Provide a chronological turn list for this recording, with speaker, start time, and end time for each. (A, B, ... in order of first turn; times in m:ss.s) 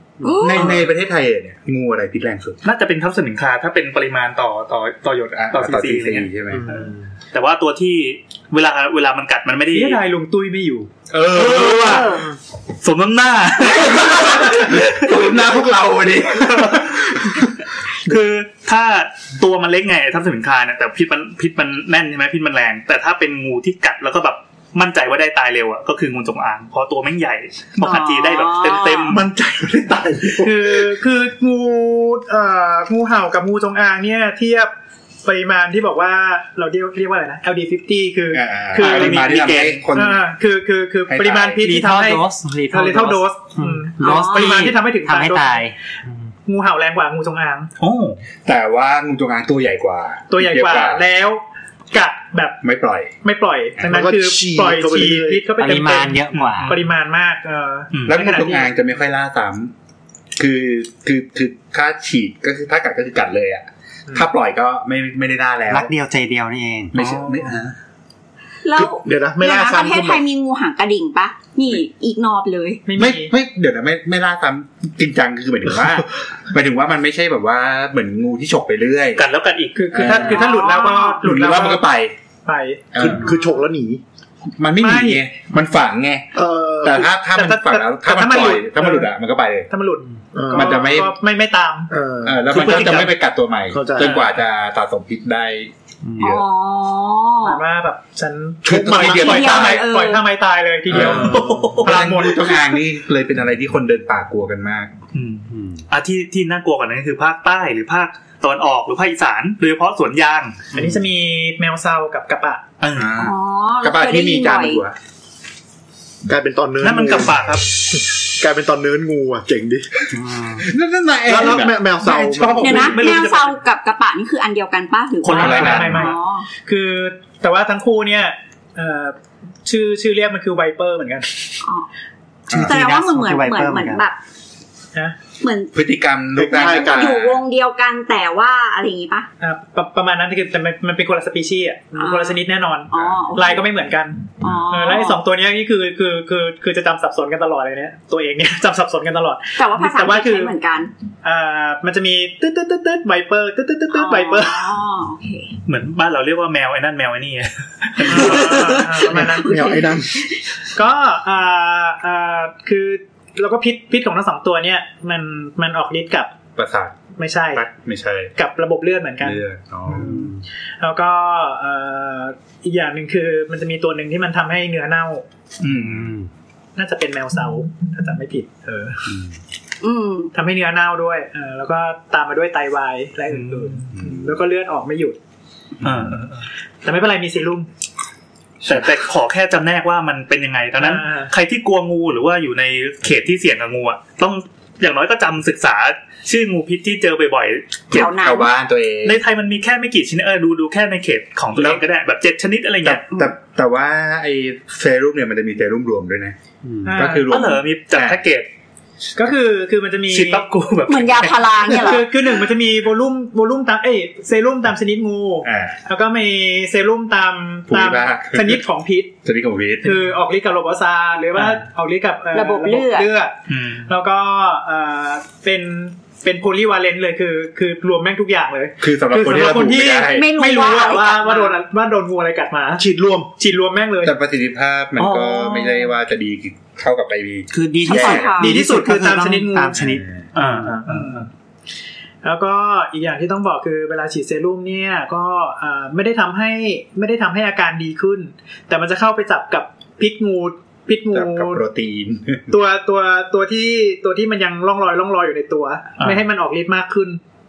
0:00.2-0:00.5 A
0:00.2-0:00.8 B
0:00.4-0:02.6 C
0:02.6-0:10.0 D
0:05.4-0:06.7 C
0:06.5-0:07.0 A
0:09.7-0:10.9 E
0:11.1-0:12.2 C
0:11.5-0:12.2 D
0:11.9-0:12.2 B
0:12.8-0:15.2 D
0:13.7-0:17.5 C
0:16.4-0:17.3 D
0:18.0-0:29.2 D
0:27.8-0:29.2 B
0:29.1-0:30.8 F
0:30.4-0:34.7 E
0:35.2-0:39.3 E
0:38.3-0:40.2 C
0:38.8-0:39.8 D
0:39.9-0:45.6 E
0:41.1-0:41.7 C
0:41.6-0:45.8 A
0:44.0-0:44.7 B
0:46.5-0:47.7 E
0:47.8-0:48.2 D
0:48.4-0:51.0 C
0:50.3-0:52.6 E
0:52.6-0:53.1 C
0:53.2-0:58.7 E
0:53.8-0:55.5 F
0:55.6-0:56.8 A
0:56.3-0:56.8 D
0:58.1-0:59.7 C
1:00.4-1:05.9 C
1:05.7-1:07.0 A
1:06.9-1:07.7 C
1:07.0-1:07.4 E
1:08.6-1:12.8 B
1:08.7-1:10.2 F
1:12.9-1:13.3 E
1:13.0-1:19.2 C
1:19.2-1:20.2 D
1:19.8-1:21.8 E
1:19.9-1:20.4 C
1:20.2-1:21.2 B
1:21.2-1:22.1 C
1:22.4-1:22.9 E
1:22.9-1:23.3 C
1:23.0-1:24.0 F
1:24.6-1:26.3 C
1:24.8-1:25.2 E
1:26.4-1:27.1 F
1:26.8-1:29.7 C
1:27.3-1:29.1 E
1:29.7-1:31.9 E
1:30.3-1:30.9 F
1:30.5-1:31.1 C
1:31.9-1:32.5 F
1:32.2-1:36.4 C
1:32.5-1:33.1 D
1:33.7-1:34.2 F
1:36.0-1:36.3 A
1:36.2-1:37.6 B
1:37.4-1:42.6 E
1:38.6-1:39.8 C
1:38.9-1:40.2 B
1:40.9-1:44.9 C
1:41.0-1:42.1 D
1:45.1-1:50.6 D
1:45.5-1:45.8 A
1:50.7-1:52.6 E
1:50.7-1:51.0 A
1:52.8-1:53.2 D
1:53.0-1:55.0 C
1:53.2-1:54.8 B
1:56.3-1:57.4 F
1:56.8-1:57.6 D
1:58.0-2:00.0 F
2:00.1-2:00.7 A
2:00.6-2:03.1 C
2:01.3-2:02.9 F
2:02.6-2:06.5 B
2:02.8-2:03.6 D
2:05.2-2:06.1 D
2:05.3-2:11.5 E
2:05.4-2:06.1 C
2:12.5-2:14.0 A
2:12.6-2:14.2 B
2:15.4-2:15.8 B
2:15.7-2:17.4 C
2:16.4-2:17.2 F
2:16.5-2:19.3 B
2:19.4-2:30.6 E
2:22.0-2:23.7 B
2:24.4-2:25.2 B
2:29.6-2:30.9 B
2:31.2-2:34.7 E
2:33.9-2:35.5 B
2:35.7-2:38.8 D
2:38.0-2:39.8 E
2:38.0-2:40.4 B
2:39.1-2:40.3 F
2:40.7-2:46.3 E
2:46.6-2:47.0 C
2:47.2-2:47.6 E
2:47.5-2:48.3 C
2:48.4-2:55.2 E
2:49.2-2:50.3 C
2:50.0-2:50.4 A
2:55.6-2:56.1 C
2:55.7-2:56.3 A
2:56.8-2:59.1 E
2:59.1-2:59.3 C
2:59.8-3:00.3 B
3:00.3-3:05.2 E
3:03.3-3:03.8 D
3:03.9-3:04.4 C
3:05.8-3:06.5 D
3:06.8-3:07.7 E
3:08.7-3:18.1 D
3:10.8-3:11.3 E
3:17.9-3:18.5 B
3:17.9-3:19.2 C
3:19.0-3:23.0 D
3:21.6-3:21.8 C
3:22.8-3:26.4 C
3:26.6-3:27.0 A
3:26.8-3:27.3 E
3:26.9-3:28.2 C
3:27.3-3:28.5 D
3:29.2-3:30.4 E
3:30.1-3:31.8 D
3:30.9-3:32.1 B
3:31.7-3:39.1 E
3:35.4-3:35.8 C
3:37.7-3:38.6 C
3:39.2-3:40.0 C
3:39.8-3:43.4 E
3:42.3-3:43.1 B
3:43.5-3:43.9 D
3:43.9-3:52.8 E
3:48.8-3:50.3 C
3:50.1-3:51.6 B
3:52.8-3:53.3 F
3:53.4-3:54.2 E
3:54.0-3:58.4 C
3:55.0-3:55.9 D
3:57.5-4:00.8 A
3:57.8-3:58.6 B
3:58.3-3:59.8 E
3:59.8-4:00.3 C
4:00.4-4:01.3 D
4:00.8-4:01.3 E
4:02.2-4:11.6 E
4:11.1-4:12.5 C
4:12.5-4:17.2 E